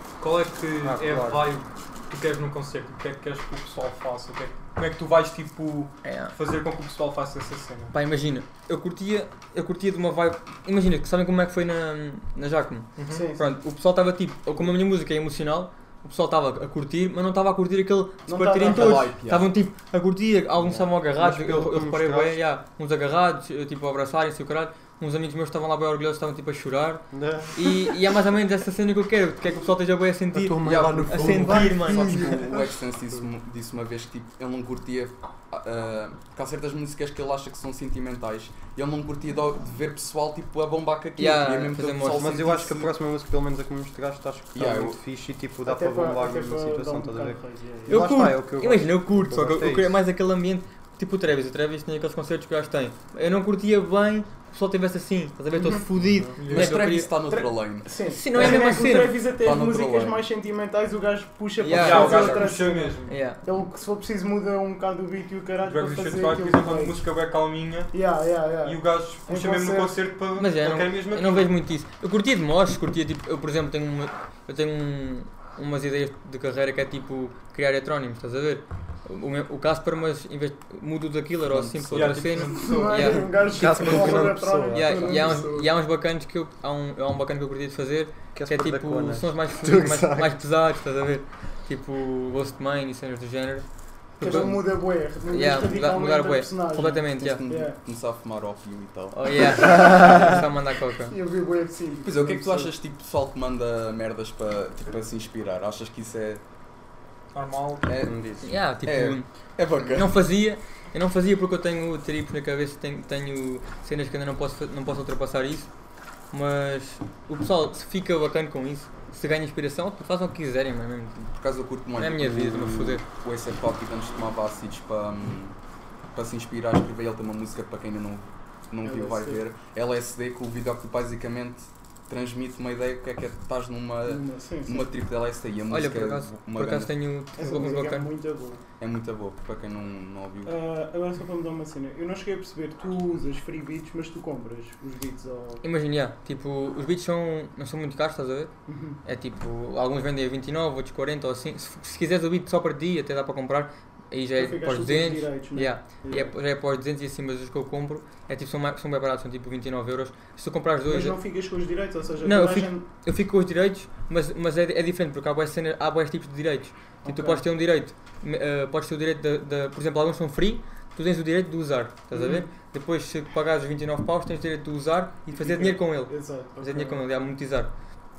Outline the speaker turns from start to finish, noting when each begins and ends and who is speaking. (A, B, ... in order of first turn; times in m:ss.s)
0:00.2-0:07.9 A
0:00.8-0:01.5 B
0:06.0-0:06.4 C
0:07.9-0:32.4 C
0:13.0-0:13.3 A
0:13.1-0:13.6 D
0:18.3-0:19.1 D
0:18.6-0:19.5 E
0:20.6-0:22.4 B
0:27.1-0:28.0 B
0:30.3-0:32.8 B
0:30.6-0:42.9 E
0:41.2-0:42.3 C
0:42.1-0:49.9 B
0:44.5-0:45.0 E
0:45.6-0:48.1 D
0:47.9-0:57.1 C
0:55.6-0:55.8 D
0:56.0-0:56.4 B
0:56.4-0:56.8 A
0:56.5-0:58.6 E
0:57.3-1:07.0 D
0:58.1-0:59.2 C
0:59.4-1:00.2 E
1:01.6-1:02.5 C
1:01.7-1:03.2 A
1:03.1-1:03.4 C
1:05.6-1:07.9 A
1:07.9-1:10.0 D
1:08.6-1:11.5 A
1:10.4-1:34.7 C
1:21.4-1:22.4 E
1:21.9-1:23.3 A
1:22.4-1:25.7 D
1:23.5-1:25.3 B
1:28.4-1:30.4 B
1:34.2-1:37.8 D
1:35.3-1:37.4 C
1:37.2-1:39.2 E
1:39.1-1:41.2 C
1:39.8-1:40.5 D
1:41.0-1:42.7 D
1:42.0-1:46.4 E
1:47.3-1:47.9 A
1:47.8-1:50.2 E
1:48.0-1:48.5 B
1:48.4-1:49.3 C
1:49.8-1:55.7 C
1:56.3-2:01.3 C
2:01.4-2:05.6 E
2:02.0-2:03.0 C
2:06.1-2:16.9 E
2:08.8-2:09.4 D
2:14.1-2:14.9 D
2:15.7-2:18.1 C
2:17.4-2:18.6 D
2:18.8-2:20.6 E
2:20.4-2:25.6 D
2:25.6-2:28.5 C
2:28.7-2:29.0 D
2:29.0-2:41.2 C
2:34.4-2:36.3 D
2:40.9-2:42.8 D
2:42.2-2:57.7 C
2:47.0-2:47.4 D
2:52.1-2:52.5 D
2:55.3-2:57.3 D